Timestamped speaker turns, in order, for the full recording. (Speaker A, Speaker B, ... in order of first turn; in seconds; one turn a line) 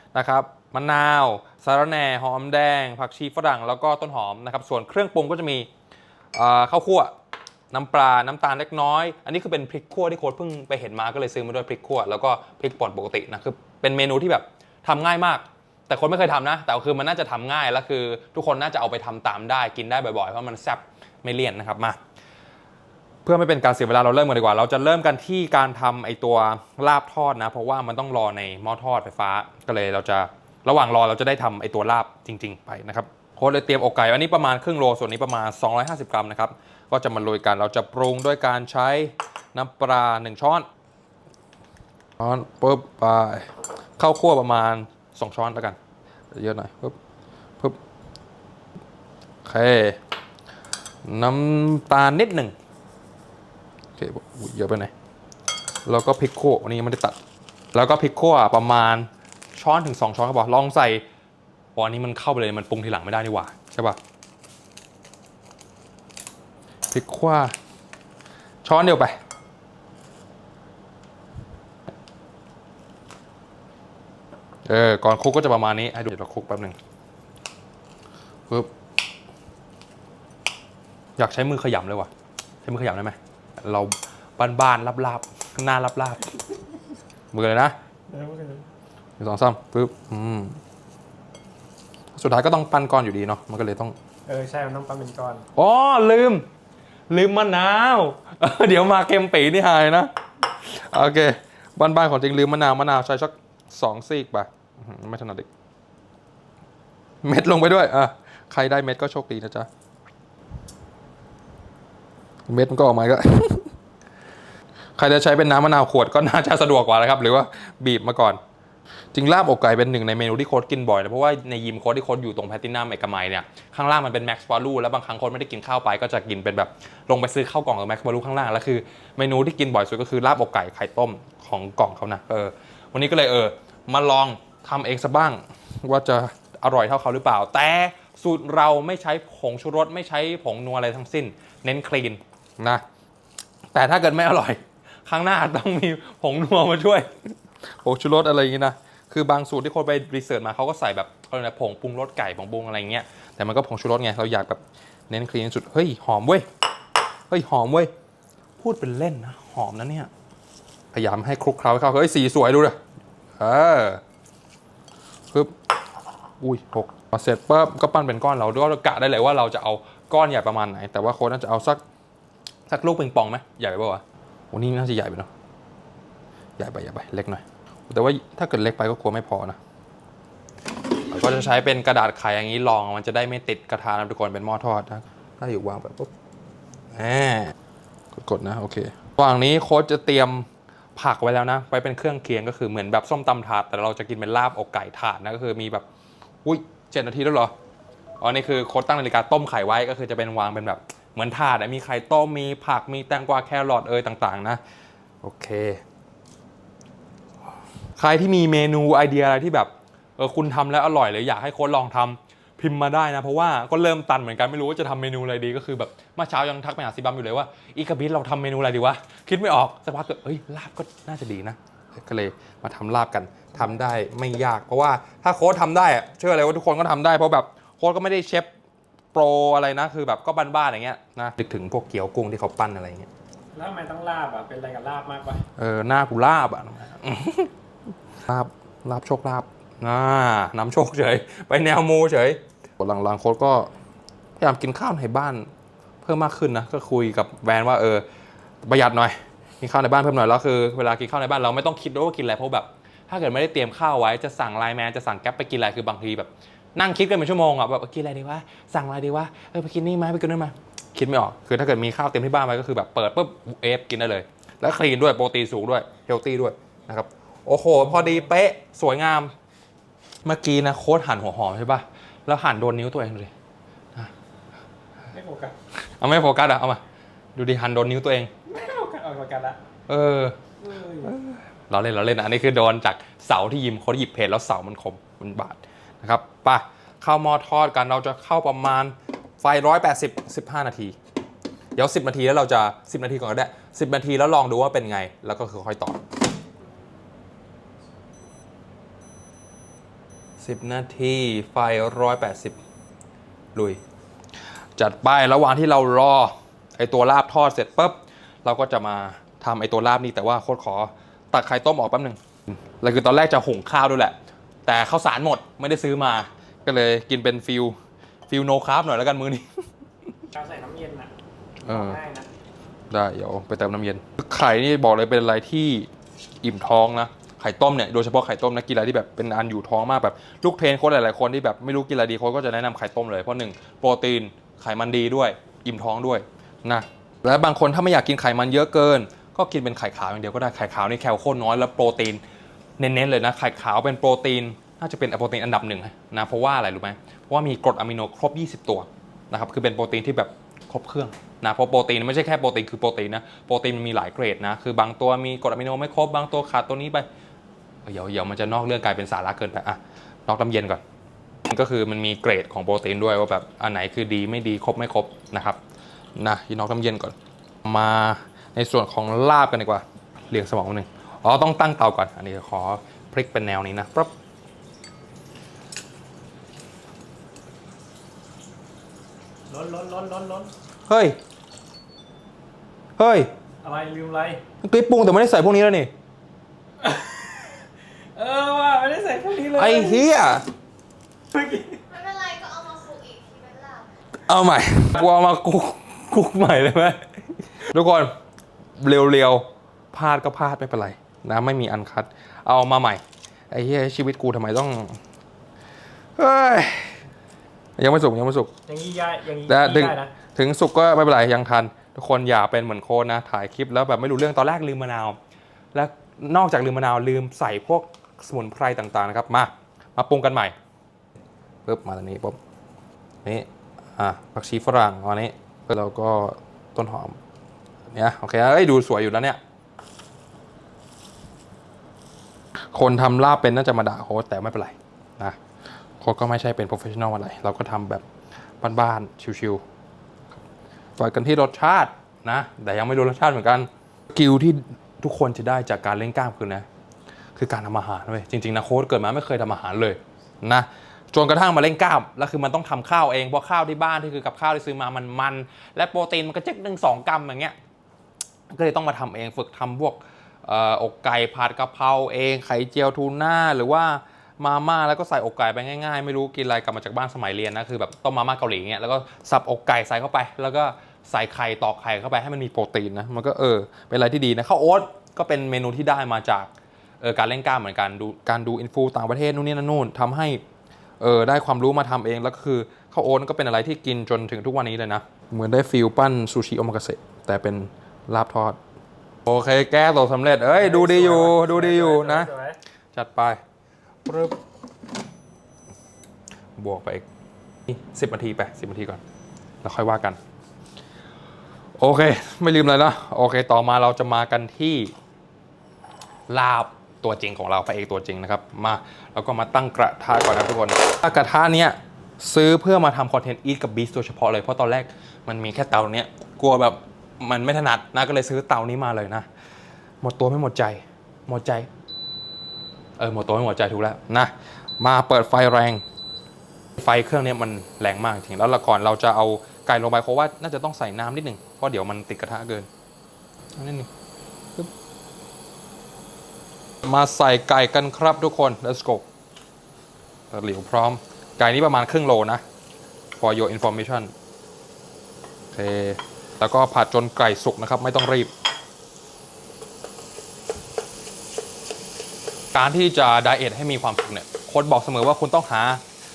Speaker A: 0.1-5.7
Speaker A: 6.3-7.1
Speaker A: 7.7-22.0
Speaker A: 23.2-40.7
Speaker A: 42.2-45.8
Speaker A: 46.3-47.0
Speaker A: 49.4-50.0
Speaker A: 51.0-52.5
Speaker A: 54.0-54.9
Speaker A: 55.9-57.2
Speaker A: 57.7-61.0
Speaker A: 61.8-64.0
Speaker A: 66.9-67.5
Speaker A: 68.6-69.2
Speaker A: 74.7-76.8
Speaker A: 81.2-82.1
Speaker A: 82.6-86.3
Speaker A: 87.3-87.8
Speaker B: 88.1-88.7
Speaker A: 89.2-90.6
Speaker A: 92.1-93.9
Speaker B: 94.3-95.4
Speaker A: 95.5-96.5
Speaker A: 97.1-105.5
Speaker A: 107.2-109.7
Speaker A: 112.5-113.7
Speaker A: 115.0-118.4
Speaker A: 119.1-142.8
Speaker A: 143.7-156.5
Speaker A: 157.3-157.9
Speaker A: 158.6-160.1
Speaker A: 160.9-162.8
Speaker A: 163.4-164.0
Speaker A: 166.4-171.8
Speaker A: 172.7-175.3
Speaker A: 176.6-179.6
Speaker A: 181.1-186.1
Speaker A: 186.9-187.5
Speaker A: 188.2-195.8
Speaker A: 196.4-197.5
Speaker A: 198.2-204.6
Speaker A: 205.2-205.8
Speaker A: 208.0-228.5
Speaker A: 229.1-233.1
Speaker B: 233.5-235.4
Speaker A: 235.6-237.5
Speaker A: 238.3-243.7
Speaker A: 244.4-245.5
Speaker A: 246.0-248.1
Speaker A: 248.6-269.3
Speaker B: 267.8-268.3
Speaker A: 270.2-273.3
Speaker B: 275.1-275.5
Speaker A: 275.8-276.8
Speaker A: 277.4-278.3
Speaker B: 278.5-279.6
Speaker A: 279.9-280.4
Speaker B: 280.6-281.1
Speaker A: 281.0-291.0
Speaker A: 291.8-296.0
Speaker A: 300.4-302.6
Speaker A: 303.5-303.8
Speaker A: 304.8-317.8
Speaker A: 318.3-319.6
Speaker B: 320.3-321.1
Speaker A: 321.6-322.0
Speaker B: 321.7-322.3
Speaker A: 322.9-325.9
Speaker A: 326.4-342.2
Speaker A: 342.8-357.1
Speaker A: 357.9-360.8
Speaker A: 361.5-365.6
Speaker A: 366.2-374.1
Speaker B: 379.5-380.5
Speaker A: 380.9-381.2
Speaker A: 383.0-383.3
Speaker B: 383.6-384.4
Speaker A: 384.6-385.9
Speaker B: 386.8-390.1
Speaker A: 389.5-390.5
Speaker B: 391.3-391.8
Speaker C: 391.9-393.9
Speaker A: 394.3-398.1
Speaker A: 398.8-405.0
Speaker A: 406.2-407.0
Speaker A: 407.8-408.5
Speaker B: 408.7-410.1
Speaker A: 409.5-415.2
Speaker A: 415.7-420.5
Speaker A: 421.6-422.4
Speaker A: 423.2-427.2
Speaker A: 427.9-429.4
Speaker A: 432.6-435.4
Speaker A: 436.0-438.0
Speaker A: 438.6-439.6
Speaker A: 441.0-446.6
Speaker A: 447.4-457.6
Speaker A: 458.5-476.5
Speaker A: 477.0-480.4
Speaker A: 481.0-488.6
Speaker A: 489.2-492.3
Speaker B: 490.6-492.6
Speaker A: 492.9-493.4
Speaker A: 494.1-494.4
Speaker A: 496.6-497.1
Speaker A: 497.7-499.0
Speaker A: 499.6-500.2
Speaker A: 501.8-504.9
Speaker A: 506.3-519.2
Speaker A: 520.0-521.7
Speaker A: 523.0-525.8
Speaker A: 526.8-532.7
Speaker A: 533.6-533.9
Speaker A: 536.8-539.1
Speaker A: 540.3-542.4
Speaker A: 543.2-544.1
Speaker A: 545.5-548.3
Speaker A: 552.5-555.8